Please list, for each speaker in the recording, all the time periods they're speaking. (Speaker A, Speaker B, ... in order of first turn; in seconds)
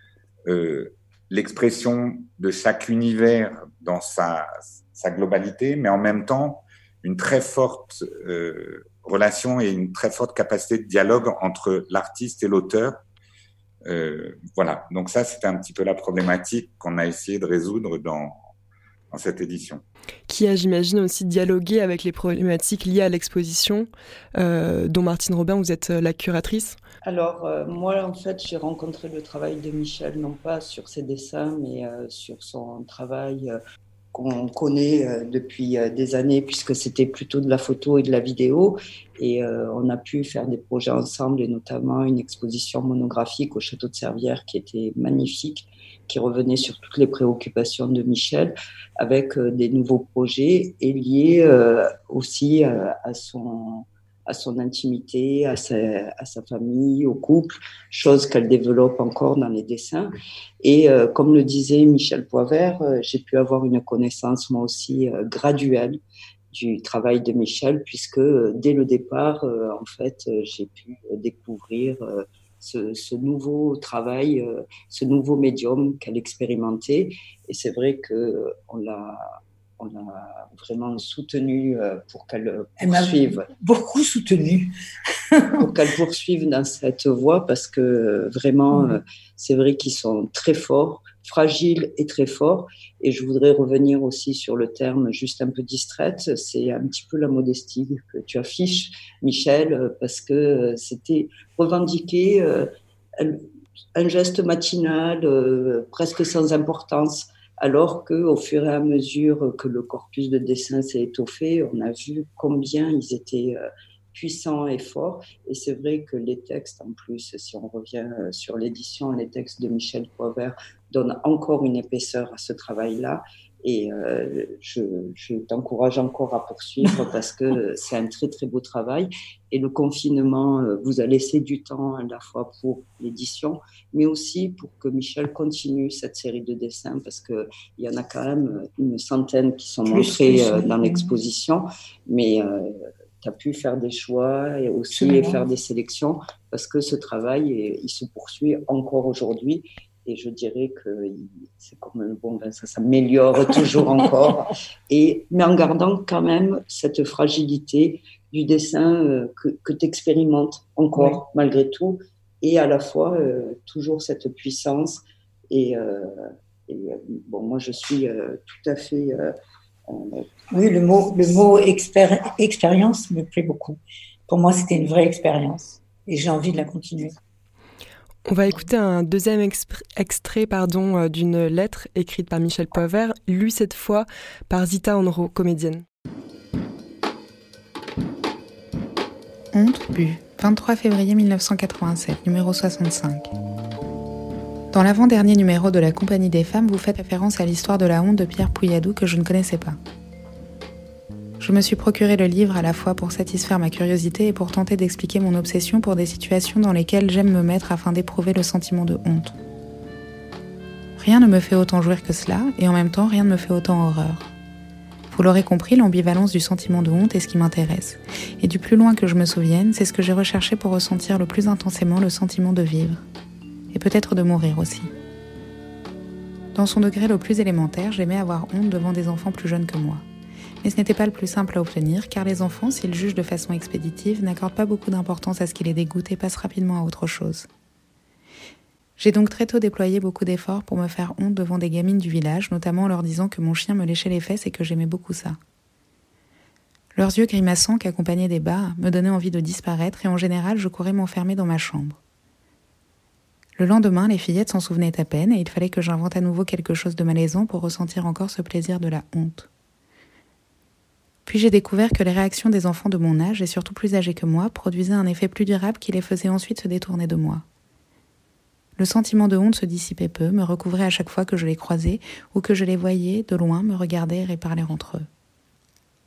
Speaker A: 0.5-13.0, 13.9-18.4, 19.1-19.8
Speaker B: 20.3-26.8, 178.3-185.8
Speaker C: 27.0-33.6, 34.1-66.0, 66.5-79.3, 79.8-83.5, 85.6-103.4, 104.0-113.6, 114.1-166.2, 166.7-169.3, 169.9-170.2
Speaker D: 82.8-84.7, 85.4-85.7, 88.7-89.0, 139.9-141.2, 144.9-145.4, 153.5-153.9, 160.9-161.2, 170.5-177.1
Speaker E: 189.5-193.3, 194.7-199.8, 201.4-209.4, 211.0-214.3, 215.1-223.0, 223.7-224.9, 226.6-230.0, 230.6-237.5, 239.0-245.4, 246.9-252.0, 253.6-259.5, 261.3-267.4, 268.8-275.1